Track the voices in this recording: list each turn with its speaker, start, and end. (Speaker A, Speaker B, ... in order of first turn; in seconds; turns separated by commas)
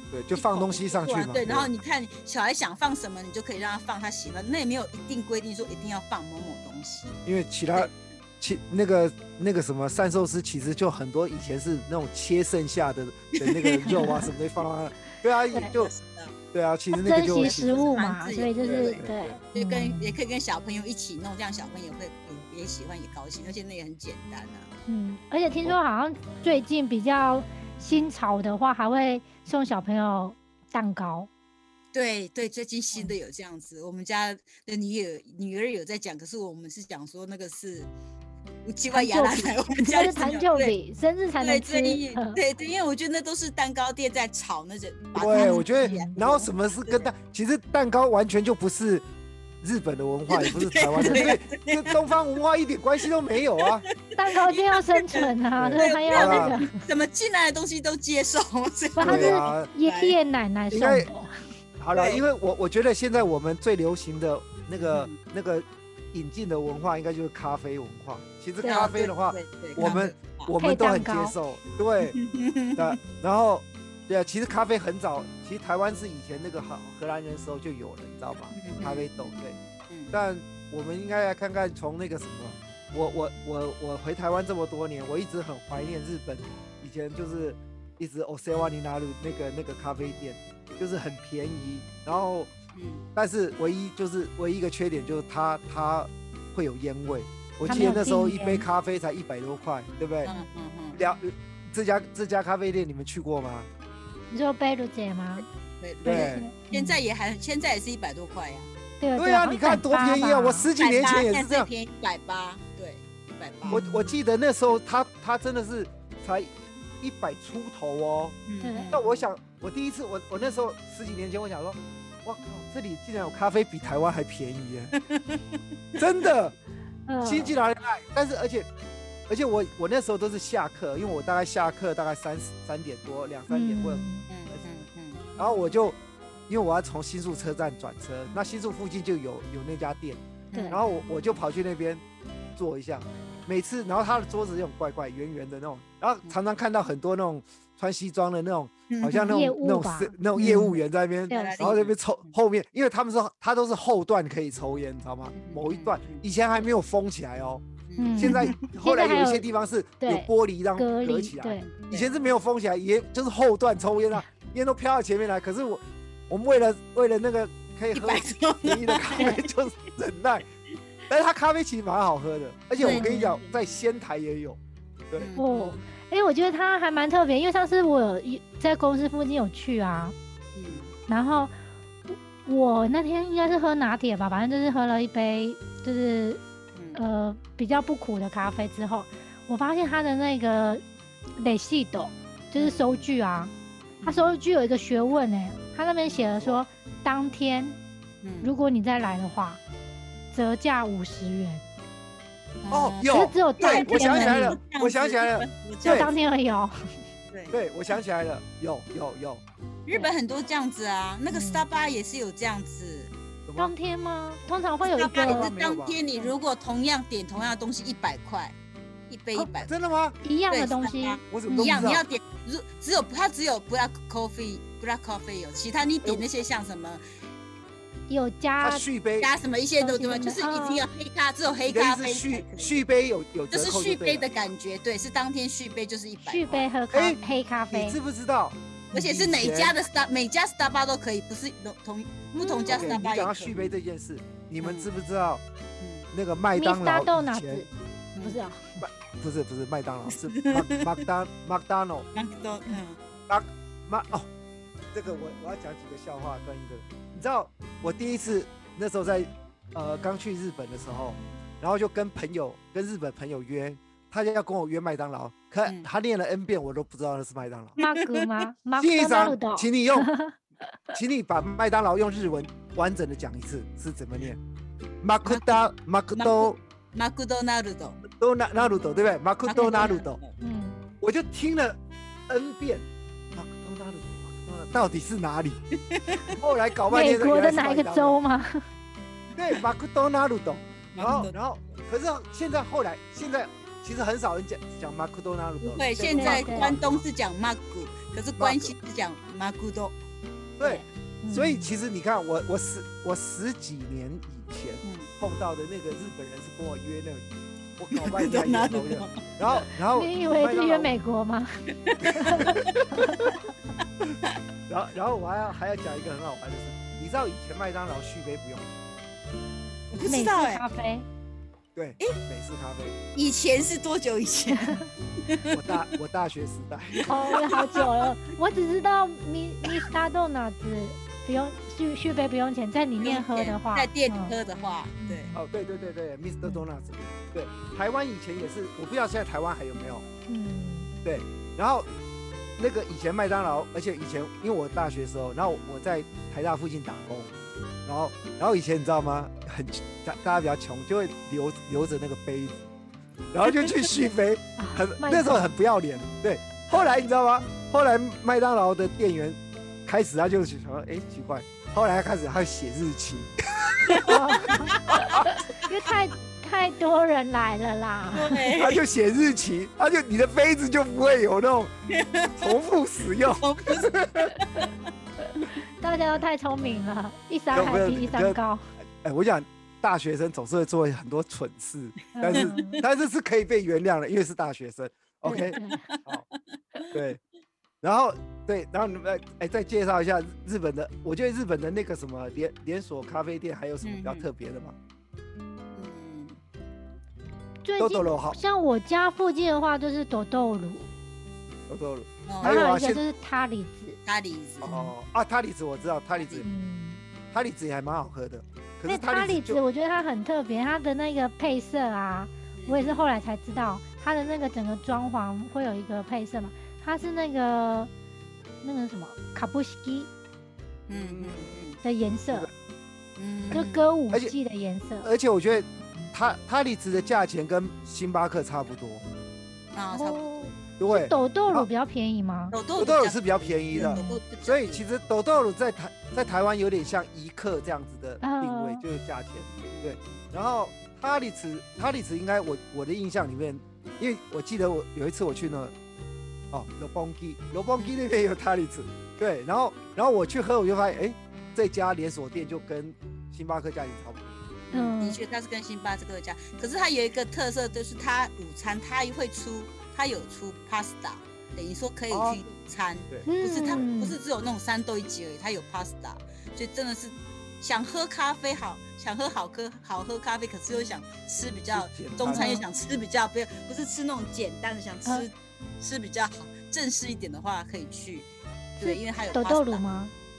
Speaker A: 0.1-1.7, Speaker B: 0.3-7.2, Speaker A: 7.2-15.9, Speaker B: 7.7-8.0, Speaker B: 13.4-14.2, Speaker C: 14.0-14.3, Speaker B: 15.7-16.3, Speaker A: 16.5-17.9, Speaker C: 17.0-20.1, Speaker B: 17.3-24.7, Speaker A: 18.6-19.4, Speaker C: 24.9-31.3, Speaker B: 31.9-37.9, Speaker B: 38.6-40.7, Speaker C: 38.9-42.4, Speaker B: 41.4-47.0, Speaker A: 45.1-49.0, Speaker C: 45.3-46.1, Speaker A: 49.6-53.9, Speaker B: 50.3-52.0, Speaker C: 50.9-51.3, Speaker B: 54.1-60.1, Speaker C: 54.1-56.8, Speaker A: 55.6-56.5, Speaker C: 59.0-61.4, Speaker A: 59.0-59.7, Speaker A: 60.7-61.1, Speaker A: 61.8-72.2, Speaker B: 61.9-62.2, Speaker B: 64.8-65.1, Speaker C: 68.6-68.9, Speaker B: 68.7-70.5, Speaker C: 70.6-71.3, Speaker B: 72.1-73.0, Speaker A: 72.8-79.5, Speaker B: 78.5-80.1, Speaker A: 80.1-92.5, Speaker B: 92.7-93.0, Speaker A: 93.1-100.3, Speaker C: 97.7-98.7, Speaker B: 100.2-101.0, Speaker A: 100.9-103.7, Speaker C: 104.3-105.5, Speaker B: 105.4-108.7, Speaker A: 106.0-106.5, Speaker C: 106.0-107.0, Speaker C: 109.0-110.7, Speaker A: 109.2-111.7, Speaker B: 110.8-113.8, Speaker C: 113.7-114.1, Speaker A: 113.7-118.4, Speaker B: 118.5-119.2, Speaker C: 118.6-119.0, Speaker A: 118.9-125.0, Speaker B: 125.1-125.4, Speaker A: 126.0-126.5, Speaker C: 127.1-127.5, Speaker A: 127.2-128.7, Speaker A: 129.3-134.0, Speaker C: 133.5-134.3, Speaker B: 134.3-135.3, Speaker A: 135.4-136.0, Speaker A: 136.5-142.0, Speaker B: 140.5-141.0, Speaker C: 140.5-140.8, Speaker A: 142.6-170.5, Speaker B: 148.9-149.2, Speaker C: 149.1-151.7, Speaker B: 151.3-152.3, Speaker B: 155.3-156.2, Speaker B: 157.9-158.6, Speaker C: 158.0-159.4, Speaker C: 160.0-161.7, Speaker B: 161.6-162.1, Speaker B: 167.9-169.4, Speaker C: 169.2-169.4, Speaker A: 171.1-174.6, Speaker C: 172.8-173.4, Speaker B: 172.8-173.5, Speaker B: 175.2-175.8, Speaker C: 175.4-180.1, Speaker B: 180.5-180.9, Speaker C: 181.1-181.5, Speaker C: 182.1-186.4, Speaker B: 186.7-187.0, Speaker C: 186.9-190.8, Speaker C: 191.4-193.5, Speaker B: 192.5-193.0, Speaker B: 194.0-194.3, Speaker C: 194.0-197.8, Speaker B: 198.2-198.5, Speaker C: 198.4-199.6, Speaker C: 200.3-201.6, Speaker B: 202.6-206.1, Speaker A: 202.7-206.1, Speaker C: 203.1-204.6, Speaker C: 205.8-206.9, Speaker A: 207.5-209.4, Speaker B: 209.8-213.1, Speaker C: 211.3-211.6, Speaker A: 213.4-213.7, Speaker C: 213.6-215.5, Speaker B: 214.8-218.5, Speaker A: 215.2-216.0, Speaker B: 219.1-219.7, Speaker A: 219.6-220.2, Speaker C: 220.2-221.9, Speaker B: 220.5-227.0, Speaker A: 221.3-222.0, Speaker C: 228.1-228.8, Speaker A: 228.6-229.3, Speaker B: 229.2-232.8, Speaker C: 229.8-230.8, Speaker A: 231.7-234.3, Speaker B: 233.5-236.7, Speaker C: 236.2-238.0, Speaker A: 236.9-237.2, Speaker A: 237.7-239.7, Speaker B: 238.9-243.7, Speaker C: 242.3-243.0, Speaker A: 242.7-245.4, Speaker B: 244.6-244.9, Speaker B: 245.8-246.1, Speaker A: 246.1-247.7, Speaker C: 246.5-247.7, Speaker B: 248.1-248.4, Speaker C: 248.2-248.8, Speaker A: 248.8-252.1, Speaker B: 250.1-251.0, Speaker B: 252.1-253.0, Speaker A: 253.3-254.3, Speaker A: 254.9-267.8, Speaker C: 267.8-270.4, Speaker B: 267.8-268.3, Speaker A: 268.8-270.1, Speaker A: 270.9-274.4, Speaker A: 275.0-276.6, Speaker B: 275.2-275.6, Speaker B: 276.1-278.0, Speaker A: 278.0-280.2, Speaker B: 279.5-280.3, Speaker C: 279.5-280.9, Speaker A: 281.0-285.6, Speaker B: 285.9-286.4, Speaker A: 286.3-288.2, Speaker C: 286.9-288.6, Speaker A: 289.4-297.0, Speaker B: 290.9-291.3, Speaker C: 291.0-291.3, Speaker B: 295.6-300.0, Speaker C: 296.2-296.7, Speaker A: 298.4-298.7, Speaker A: 300.6-307.2, Speaker C: 300.6-301.7, Speaker B: 304.8-305.1, Speaker A: 307.8-310.9, Speaker B: 307.9-309.7, Speaker C: 309.9-313.3, Speaker B: 311.8-313.3, Speaker A: 312.4-312.8, Speaker A: 314.7-318.8, Speaker B: 319.9-320.6, Speaker C: 320.0-321.1, Speaker A: 321.7-322.9, Speaker B: 323.1-325.8, Speaker C: 324.5-324.9, Speaker A: 325.5-327.4, Speaker B: 326.9-327.9, Speaker C: 327.1-334.3, Speaker B: 333.0-335.3, Speaker C: 335.0-335.4, Speaker A: 335.3-340.0, Speaker C: 340.3-340.9, Speaker A: 341.0-341.9, Speaker A: 342.6-347.3, Speaker A: 347.8-352.6, Speaker A: 353.3-365.2, Speaker C: 354.6-355.5, Speaker B: 363.9-365.7, Speaker C: 364.0-368.4, Speaker B: 368.1-368.8, Speaker A: 368.5-371.7, Speaker B: 371.9-372.6, Speaker A: 372.4-374.3, Speaker B: 373.2-374.7, Speaker C: 375.8-378.6, Speaker A: 377.5-378.4, Speaker A: 379.0-386.2, Speaker C: 382.1-382.8, Speaker B: 382.3-382.8, Speaker C: 385.2-385.9, Speaker B: 385.5-386.2, Speaker A: 386.9-387.2, Speaker A: 387.8-394.8, Speaker B: 393.8-394.3, Speaker B: 395.7-396.4, Speaker C: 397.6-400.9, Speaker A: 397.8-398.4, Speaker A: 401.7-403.0, Speaker B: 402.3-402.6, Speaker C: 402.4-404.0, Speaker B: 404.0-404.7, Speaker A: 404.6-406.5, Speaker C: 404.7-404.9, Speaker B: 406.1-406.4, Speaker C: 406.4-407.0, Speaker A: 407.3-409.6, Speaker C: 408.9-417.9, Speaker B: 412.6-413.0, Speaker C: 418.6-420.1, Speaker B: 420.9-421.8, Speaker A: 420.9-421.5, Speaker C: 421.8-422.5, Speaker B: 423.2-423.8, Speaker C: 423.5-425.1, Speaker A: 425.0-429.0, Speaker B: 429.7-430.6, Speaker C: 429.9-432.6, Speaker A: 430.8-431.7, Speaker B: 432.5-434.9, Speaker A: 432.8-445.7, Speaker C: 433.7-434.2, Speaker C: 438.2-438.8, Speaker B: 439.4-440.2, Speaker A: 446.5-454.4, Speaker B: 454.7-478.3, Speaker C: 454.7-455.2, Speaker A: 462.1-462.4, Speaker C: 463.3-464.1, Speaker A: 471.7-472.5, Speaker C: 472.3-472.6, Speaker C: 478.8-480.1, Speaker B: 478.8-479.8